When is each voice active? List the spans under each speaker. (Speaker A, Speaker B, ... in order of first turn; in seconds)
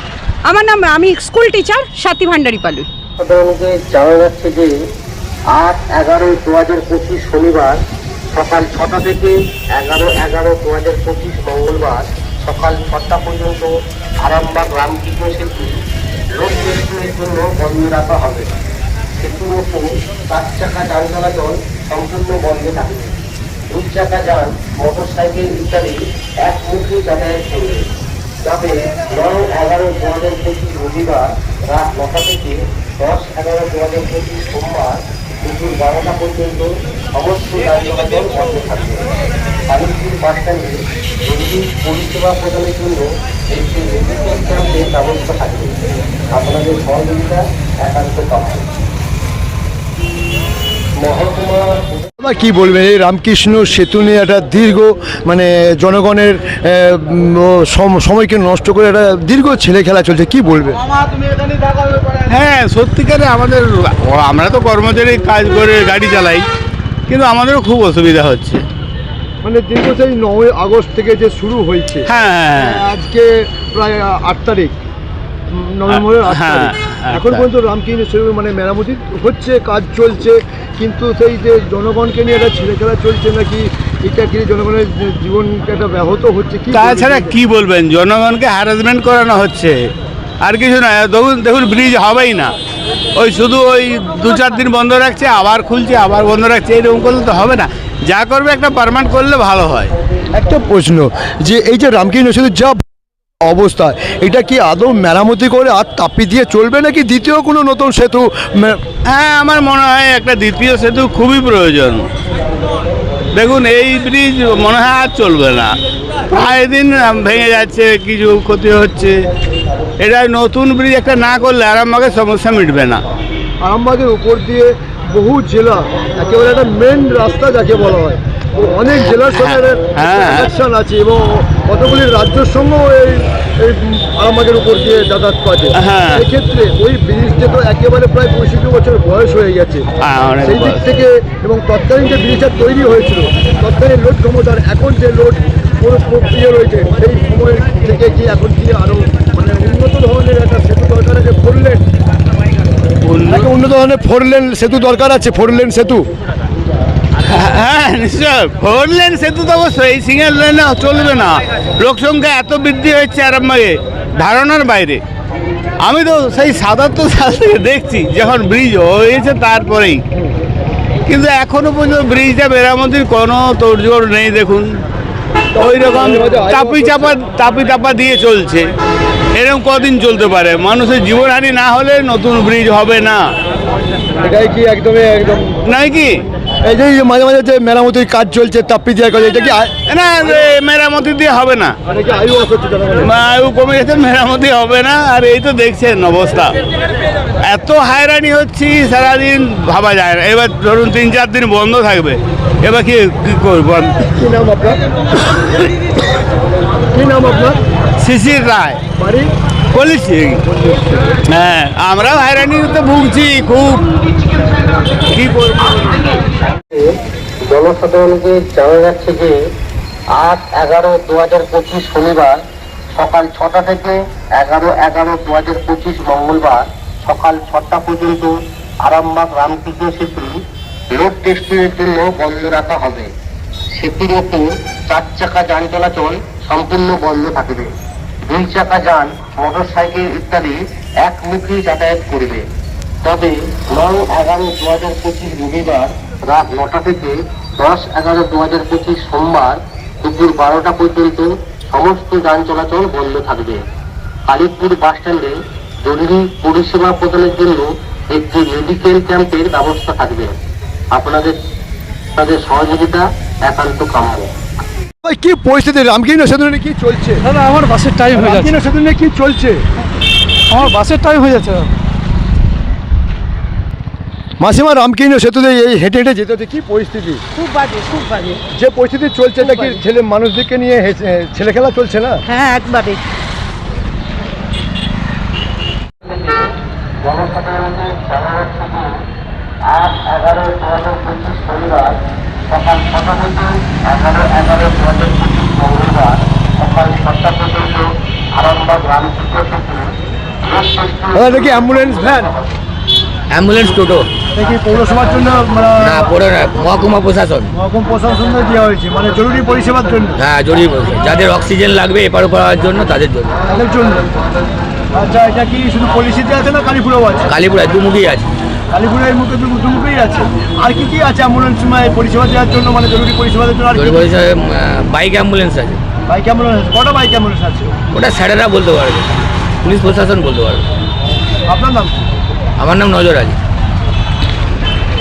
Speaker A: 0.4-2.9, 277.4-278.4, 279.4-279.8, 282.3-283.0
Speaker B: 3.2-4.7, 5.5-7.8, 8.3-13.7, 14.2-15.8, 16.4-18.5, 19.2-23.1, 23.7-27.8, 28.4-39.0, 39.7-45.8, 46.3-48.7, 51.0-51.8, 217.5-219.3, 220.1-222.3, 222.9-228.3, 228.8-230.3, 230.9-233.1, 233.8-237.7, 238.3-242.4, 243.0-253.6, 254.3-260.4, 260.9-261.3, 262.2-264.3, 286.0-286.4, 287.0-288.9, 289.7-299.9, 300.4-302.6
Speaker C: 52.2-60.8, 69.4-74.7, 75.5-87.3, 100.3-102.8, 103.5-108.8, 123.6-139.8, 140.4-151.8, 153.3-156.1, 175.5-177.2, 184.2-185.5, 186.6-189.7, 191.9-193.1, 204.2-204.8, 206.9-207.6, 209.0-209.3, 210.5-211.1, 265.0-267.3, 268.1-269.6, 274.4-277.2, 278.5-282.2, 301.1-302.3, 304.3-306.1, 307.5-310.2, 313.5-314.0, 314.9-317.3, 318.7-324.1, 326.1-327.8, 331.5-332.1
Speaker D: 62.2-66.4, 67.1-68.6, 72.1-72.8, 75.9-77.4, 86.7-89.7, 90.4-92.5, 93.2-99.9, 109.1-112.1, 113.3-115.8, 116.3-119.1, 120.0-123.0, 129.2-130.5, 135.8-136.2, 140.0-140.8, 153.0-153.5, 157.3-165.0, 165.8-170.0, 171.1-174.7, 175.6-178.7, 179.3-183.2, 185.7-186.2, 189.9-191.7, 193.0-196.6, 197.4-204.1, 205.2-205.7, 208.0-208.8, 209.7-210.4, 211.3-213.9, 215.1-216.2
Speaker E: 267.2-268.5, 270.5-271.7
Speaker F: 303.3-304.0, 305.8-307.5, 310.2-313.3, 317.3-318.2, 323.7-325.8, 327.9-329.1, 329.6-330.6, 332.6-333.4